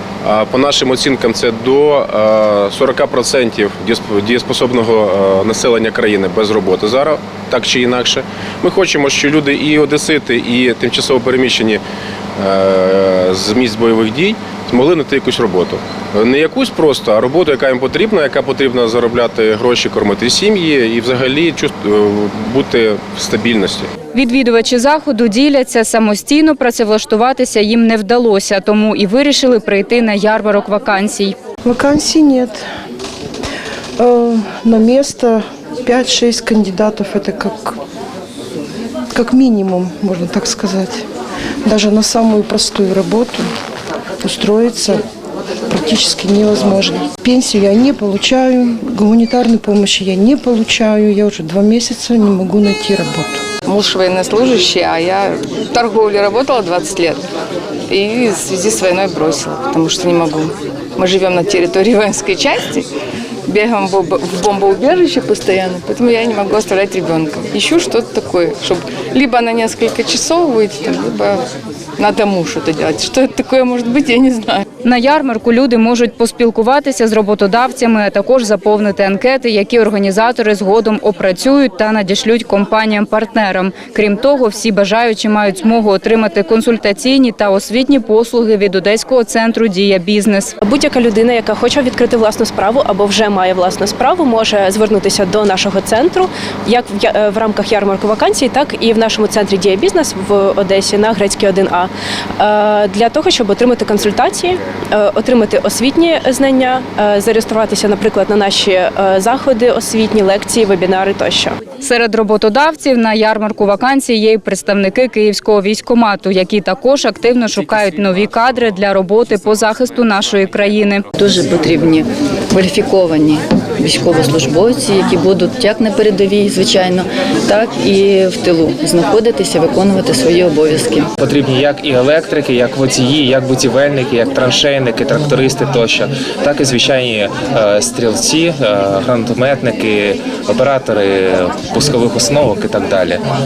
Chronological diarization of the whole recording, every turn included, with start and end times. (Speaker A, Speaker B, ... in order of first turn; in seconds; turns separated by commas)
Speaker A: 0.2-11.8, Speaker A: 12.4-23.9, Speaker B: 24.1-31.4, Speaker C: 31.6-32.6, Speaker C: 34.0-37.8, Speaker C: 39.1-41.0, Speaker C: 41.6-43.5, Speaker C: 44.2-45.0, Speaker C: 45.7-53.4, Speaker D: 53.6-57.2, Speaker D: 57.9-62.9, Speaker D: 63.5-71.5, Speaker D: 72.0-74.6, Speaker B: 74.8-90.5, Speaker E: 90.6-111.5, Speaker B: 111.8-121.0, Speaker F: 121.1-131.1, Speaker G: 131.2-143.2